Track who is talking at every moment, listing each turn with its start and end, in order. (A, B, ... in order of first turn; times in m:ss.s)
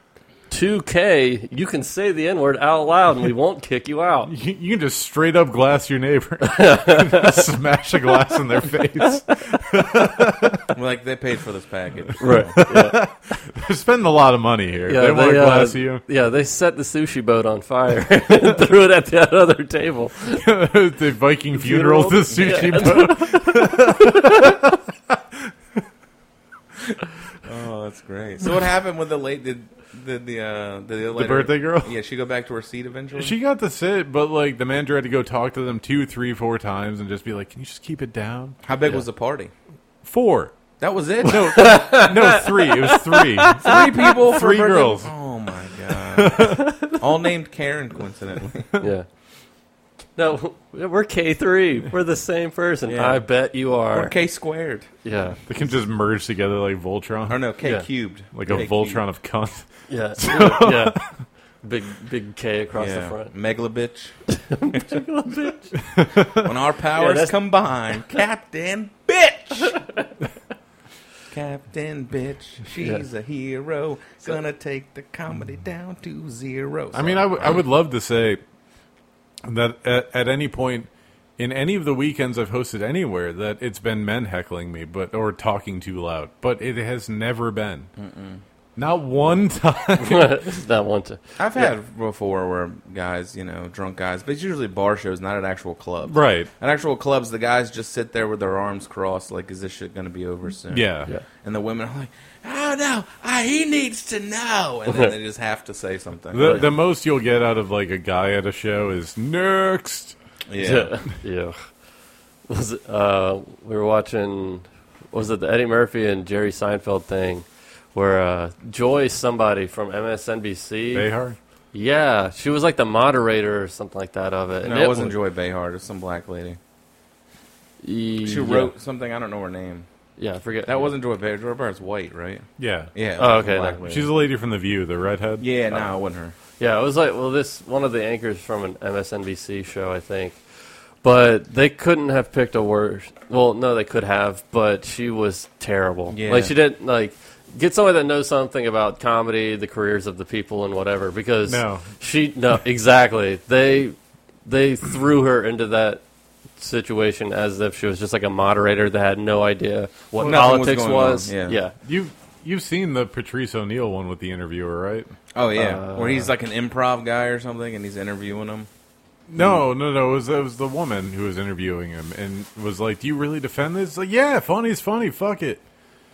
0:00.5-0:04.3 A
0:04.3-0:10.7 B
0:06.4-0:07.4 A
0:10.7-0:12.6 C
0:12.2-0:13.0 A
0:12.3-0:16.0 B
0:14.9-0:20.4 A
0:20.4-0:25.5 B
0:21.5-0:24.6 A
0:27.4-0:33.3 C
0:31.2-0:31.9 B
0:33.1-0:38.6 B
0:38.6-0:39.5 C
0:40.0-0:40.5 B
0:40.8-0:41.8 C
0:41.2-0:44.1 A
0:41.2-0:45.1 B
0:43.6-0:48.7 C
0:46.0-0:46.7 B
0:48.8-0:49.1 A
0:50.2-0:54.1 A
0:52.9-0:53.2 C
0:53.9-0:54.9 C
0:55.0-0:55.4 A
0:55.5-0:57.4 B
0:57.3-0:59.0 C
0:58.3-1:01.2 B
0:59.9-1:01.0 A
1:01.6-1:03.3 A
1:02.7-1:04.2 C
1:04.3-1:06.3 A
1:04.7-1:05.0 C
1:06.0-1:06.2 B
1:06.2-1:09.8 C
1:06.9-1:07.3 A
1:11.3-1:17.6 C
1:16.9-1:18.4 B
1:19.4-1:27.9 B
1:28.0-1:28.4 C
1:28.8-1:30.3 B
1:29.9-1:31.7 A
1:31.4-1:40.9 C
1:36.0-1:36.5 B
1:40.7-1:41.1 B
1:41.4-1:46.6 C
1:46.3-1:50.2 B
1:50.5-1:51.0 C
1:50.6-1:51.6 A
1:52.5-2:01.1 A
2:00.9-2:01.4 B
2:01.7-2:05.2 A
2:04.6-2:06.6 C
2:07.8-2:08.7 A
2:08.2-2:09.9 C
2:10.2-2:10.9 A
2:10.6-2:14.1 C
2:12.6-2:12.9 B
2:13.2-2:13.8 A
2:13.8-2:15.4 B
2:15.4-2:16.3 C
2:16.6-2:20.4 A
2:21.0-2:36.0 A
2:26.1-2:26.5 C
2:31.5-2:31.9 B
2:36.6-2:41.7 A
2:40.2-2:40.5 B
2:40.2-2:41.6 C
2:41.8-2:45.1 B
2:45.3-2:48.7 C
2:45.5-2:46.3 A
2:49.3-2:55.6 B
2:49.4-2:49.6 C